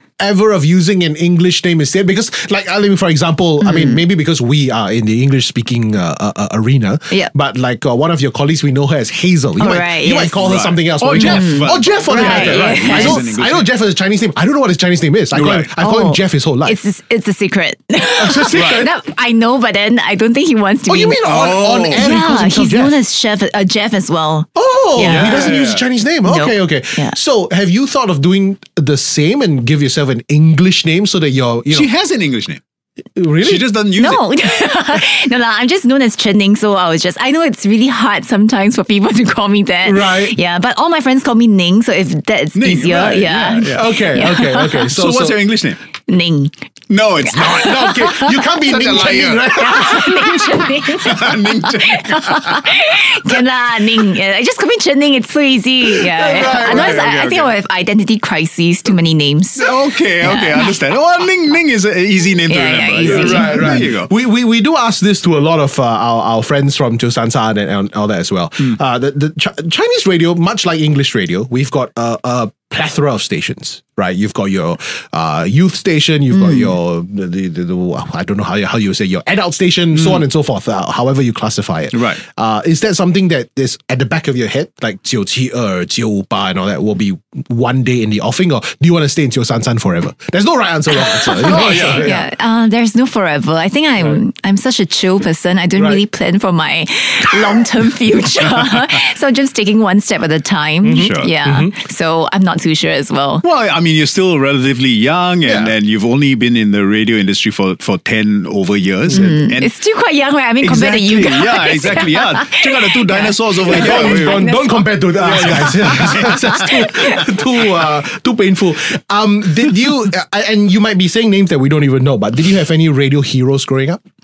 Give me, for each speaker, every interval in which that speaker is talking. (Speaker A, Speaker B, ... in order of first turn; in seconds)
Speaker A: 0.2-16.8, 18.2-18.9, 20.9-23.0, 24.5-31.9, 33.1-33.7, 39.8-40.4, 43.7-45.4, 47.3-50.6, 55.9-57.1, 63.0-92.3, 95.8-96.0, 100.8-101.7, 105.4-105.7, 113.7-124.0
Speaker B: 3.6-4.0, 9.6-10.4, 11.1-13.2, 15.8-21.2, 21.9-25.6, 26.2-27.1, 34.0-44.9, 46.1-46.5, 47.2-48.4, 49.5-60.7, 62.5-63.7, 76.3-76.7, 90.9-103.4, 109.1-117.2
Speaker C: 10.4-13.7, 15.3-15.7, 18.5-18.8, 21.2-22.1, 25.0-25.8, 31.7-32.6, 33.4-34.2, 42.5-44.0, 44.8-45.8, 46.9-48.0, 48.5-49.7, 50.9-52.7, 56.2-57.5, 59.6-64.1, 79.9-80.2, 81.9-82.2, 91.4-92.1, 100.9-101.3, 103.4-109.7, 110.6-114.5, 115.2-117.1